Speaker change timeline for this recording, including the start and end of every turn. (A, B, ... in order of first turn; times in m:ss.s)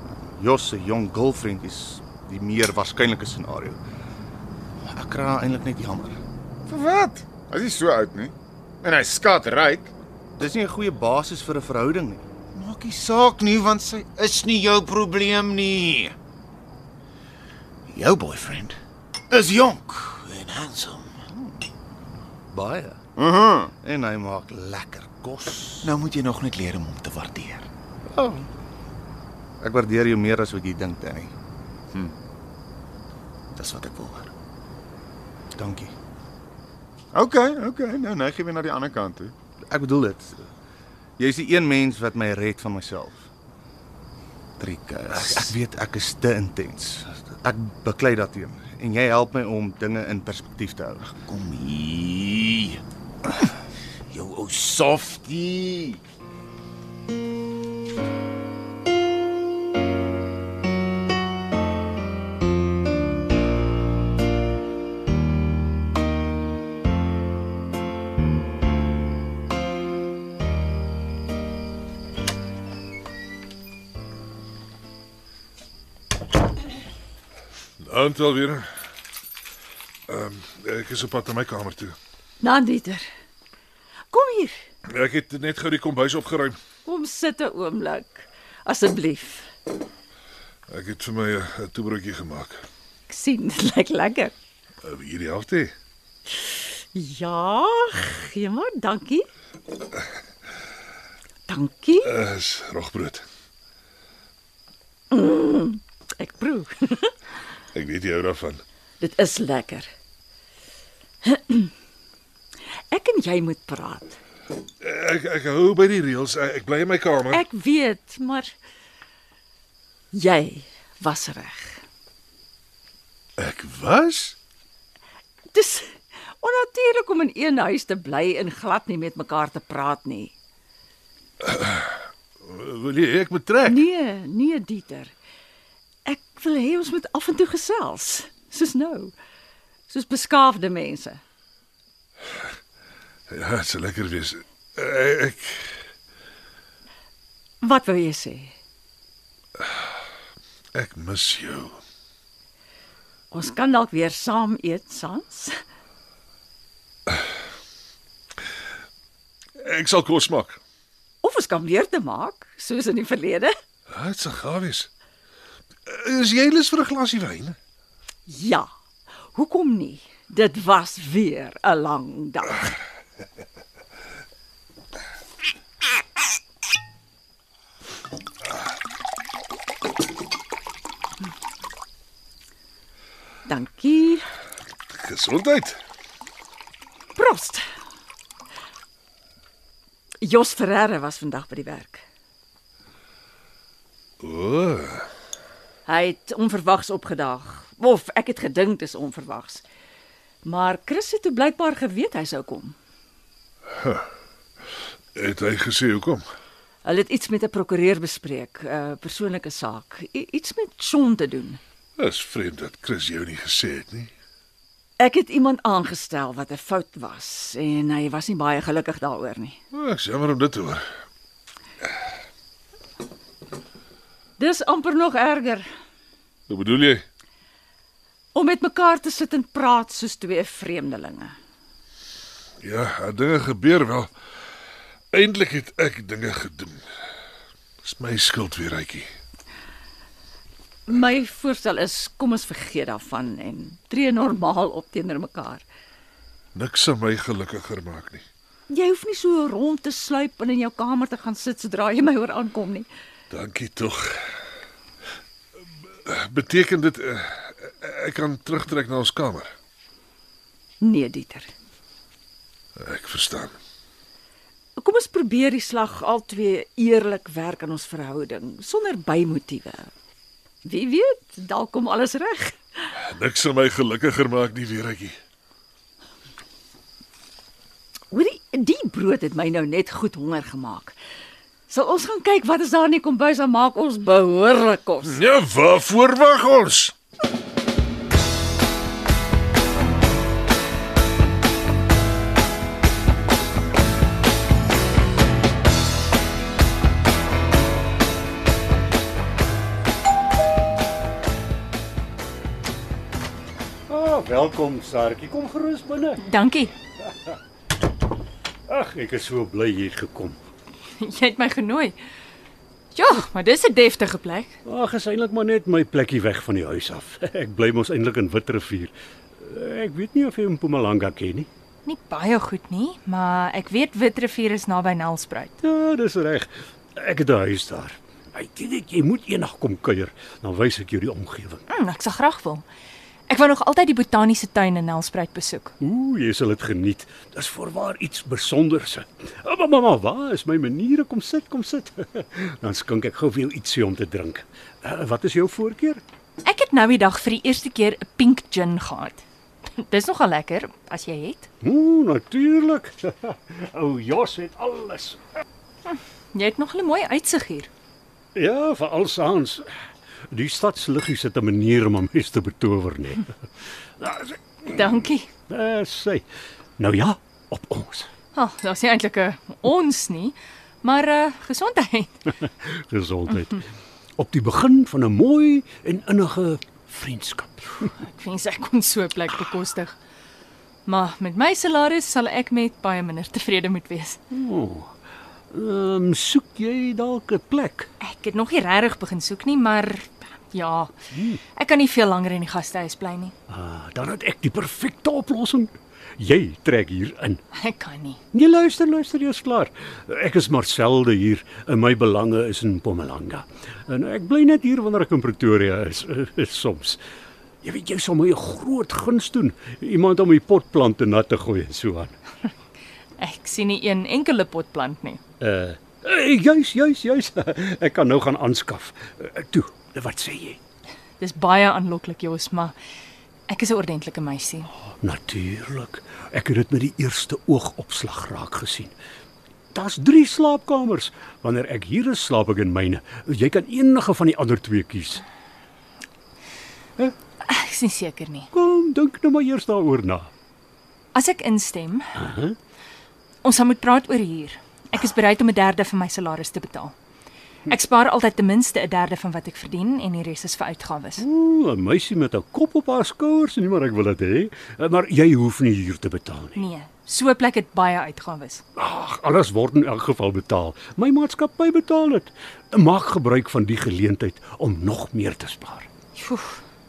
0:00.2-0:03.8 A
0:04.9-0:06.2 A
0:06.7-0:09.9 B
0:10.4-0:12.2 A
0:12.5-0:16.1 B
0:17.9-0:18.8 B
0:19.3-0:21.2 B
0:22.5-0:23.0 A
0:23.2-0:23.7 B
0:23.7-0:25.9 A
0:25.8-0:27.7 B
0:28.0-0:28.5 A
0:29.6-0:31.3 A
0:33.5-0:34.3 B
0:35.5-0:35.9 A
0:37.1-0:39.3 B
0:39.7-0:40.5 A
0:41.2-0:43.3 A
0:44.6-0:45.5 B
0:45.1-0:51.1 A
0:51.2-0:52.8 B
0:54.1-0:56.0 B
1:17.8-1:18.7 C
1:20.1-1:22.0 C
1:22.4-1:23.0 D
1:24.1-1:24.5 D
1:24.9-1:26.6 C
1:27.1-1:28.1 D
1:28.7-1:29.4 D
1:30.7-1:32.6 C
1:33.2-1:34.3 D
1:34.8-1:35.7 C
1:37.0-1:37.8 D
1:38.4-1:39.2 D
1:41.5-1:41.9 D
1:42.0-1:43.2 C
1:45.2-1:46.7 D
1:47.7-1:48.6 C
1:49.0-1:49.8 D
1:52.9-1:54.1 D
1:54.8-1:57.4 C
1:57.6-1:58.5 D
2:00.1-2:01.6 D
2:03.4-2:04.4 C
2:05.5-2:05.9 D
2:06.4-2:10.3 D
2:11.4-2:13.9 C
2:14.0-2:15.1 D
2:16.1-2:19.1 D
2:19.9-2:21.2 D
2:23.3-2:25.7 C
2:27.6-2:28.5 D
2:30.7-2:31.8 C
2:33.3-2:35.5 D
2:39.6-2:40.6 C
2:41.2-2:43.5 D
2:43.9-2:44.9 C
2:45.9-2:47.6 C
2:48.3-2:48.7 D
2:49.4-2:52.5 D
3:03.5-3:04.2 D
3:04.9-3:05.8 C
3:07.2-3:07.6 D
3:10.2-3:12.0 D
3:14.2-3:15.1 C
3:15.9-3:19.6 D
3:20.4-3:22.7 D
3:23.8-3:24.0 C
3:25.2-3:26.2 C
3:26.8-3:31.6 D
3:32.0-3:34.1 C
3:35.0-3:39.5 D
3:39.7-3:40.8 C
3:44.4-3:45.6 D
3:46.5-3:47.0 C
3:48.4-3:51.3 D
3:52.6-3:54.1 C
3:55.1-3:56.8 C
3:57.8-3:59.1 C
4:01.1-4:05.6 D
4:06.5-4:08.2 C
4:08.7-4:12.8 D
4:13.3-4:14.1 C
4:16.1-4:19.5 C
4:20.8-4:21.4 D
4:22.8-4:23.6 C
4:24.8-4:29.8 D
4:30.6-4:32.5 D
4:33.0-4:35.2 C
4:38.1-4:40.9 D
4:41.7-4:45.0 D
4:45.0-4:46.9 C
5:03.9-5:06.2 E
5:06.2-5:06.7 F
5:08.7-5:10.4 E
5:11.0-5:12.0 F
5:12.9-5:14.6 F
5:14.6-5:21.5 E
5:21.8-5:25.5 F
5:25.6-5:31.6 E
5:31.7-5:32.6 F
5:33.3-5:35.7 F
5:35.8-5:46.0 E
5:46.4-5:49.2 F
5:49.8-5:51.5 F
5:51.6-5:55.2 E
5:55.9-5:57.7 F
5:58.3-5:59.7 E
6:00.3-6:03.3 E
6:04.0-6:04.9 E
6:04.7-6:05.3 F
6:05.5-6:06.2 E
6:06.8-6:08.1 E
6:08.3-6:12.2 F
6:12.4-6:13.6 E
6:14.2-6:17.9 E
6:18.0-6:19.9 F
6:20.8-6:24.2 F
6:24.3-6:24.9 E
6:25.5-6:27.9 E
6:28.0-6:30.9 F
6:31.1-6:31.4 E
6:31.6-6:33.3 F
6:33.5-6:37.4 E
6:37.5-6:38.2 F
6:38.3-6:47.0 E
6:47.6-6:52.1 E
6:53.2-6:55.2 F
6:55.4-7:00.6 E
7:01.2-7:02.7 F
7:03.5-7:04.7 F
7:05.0-7:08.9 E
7:09.7-7:15.2 E
7:17.4-7:18.4 F
7:18.5-7:20.3 E
7:21.1-7:22.1 F
7:22.2-7:22.6 E
7:23.4-7:26.9 F
7:27.6-7:31.2 F
7:31.2-7:36.6 E
7:36.5-7:38.6 F
7:38.8-7:45.9 E
7:46.2-7:46.6 F